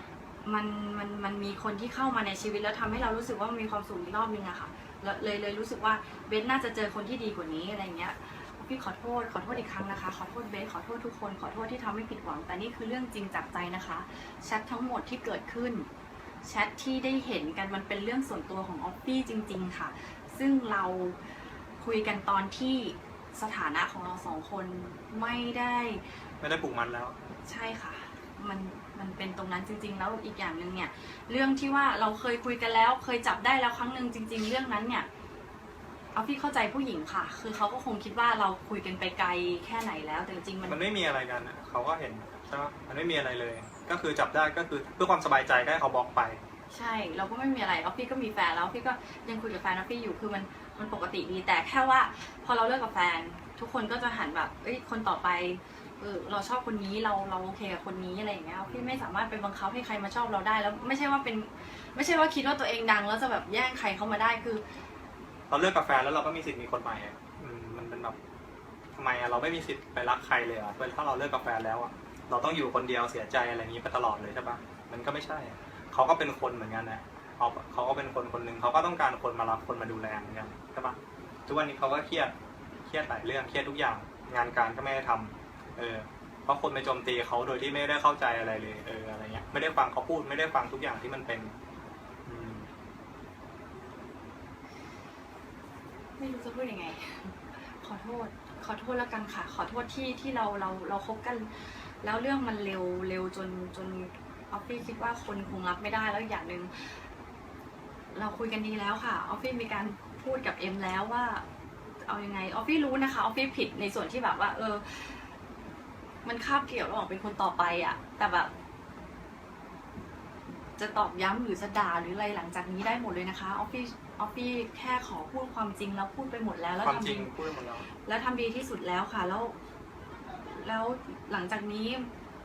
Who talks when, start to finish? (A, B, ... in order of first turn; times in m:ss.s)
0:00.4-0:15.9 A
0:16.4-0:21.2 A
0:21.8-0:26.0 A
0:26.4-0:27.2 B
0:27.4-0:35.1 A
0:36.1-0:40.8 A
0:40.7-0:46.4 B
0:46.7-1:04.6 A
0:58.7-0:59.1 B
1:05.5-1:08.2 B
1:09.0-1:22.3 B
1:22.9-1:31.5 B
1:32.3-1:32.7 B
1:36.2-1:47.0 A
1:48.1-1:51.4 A
1:52.0-1:55.3 A
1:56.2-1:58.5 A
2:00.8-2:07.3 A
2:06.8-2:07.9 B
2:08.0-2:09.6 A
2:10.4-2:12.1 A